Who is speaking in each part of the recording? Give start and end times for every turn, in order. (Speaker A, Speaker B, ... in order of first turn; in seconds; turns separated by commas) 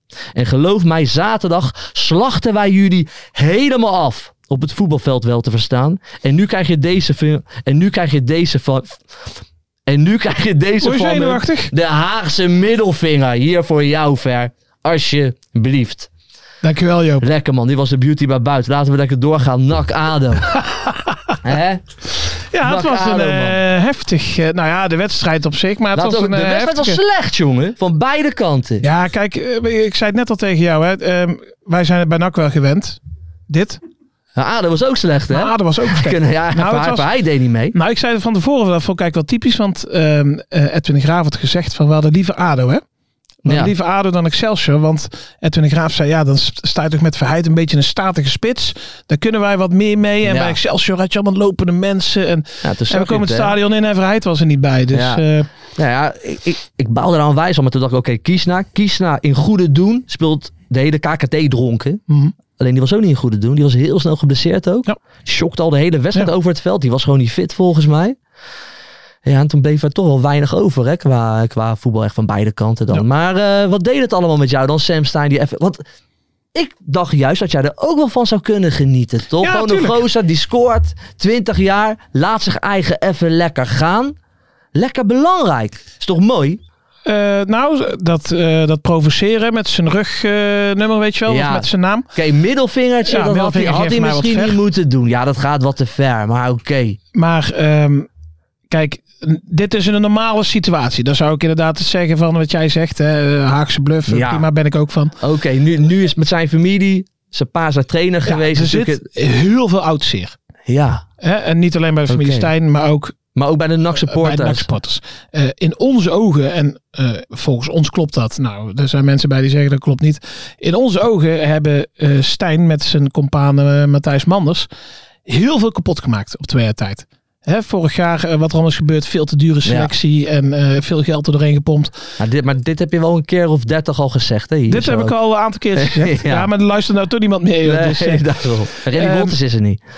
Speaker A: 0.3-9.0, Speaker A: 9.8-16.1, Speaker B: 10.8-11.7, Speaker B: 16.6-17.2, Speaker A: 17.2-20.6, Speaker B: 20.9-21.3, Speaker A: 21.4-21.8, Speaker B: 22.5-27.0, Speaker A: 22.6-23.6, Speaker A: 25.9-28.9, Speaker B: 28.8-33.8, Speaker A: 34.3-37.7, Speaker B: 35.3-37.1, Speaker B: 37.7-42.8, Speaker B: 43.4-55.5, Speaker A: 43.5-43.7, Speaker A: 50.2-50.6, Speaker A: 52.6-53.5, Speaker A: 54.9-55.2, Speaker A: 55.7-62.0, Speaker B: 62.1-62.3, Speaker A: 62.5-68.2, Speaker A: 69.2-75.8, Speaker A: 76.5-84.2, Speaker B: 79.4-80.0, Speaker A: 84.7-86.6, Speaker B: 87.0-92.1, Speaker A: 91.2-97.0, Speaker B: 93.0-94.6, Speaker B: 97.1-98.1, Speaker B: 98.7-105.2, Speaker A: 104.1-104.5, Speaker A: 105.2-109.0, Speaker B: 108.3-110.3, Speaker A: 110.7-111.0, Speaker B: 111.2-113.2, Speaker A: 112.1-112.5, Speaker A: 113.3-114.7, Speaker B: 114.1-124.7, Speaker B: 125.2-131.9, Speaker A: 129.6-129.9, Speaker A: 132.2-135.2, Speaker B: 134.7-138.2, Speaker A: 135.8-136.5, Speaker A: 137.6-139.8, Speaker B: 138.9-139.3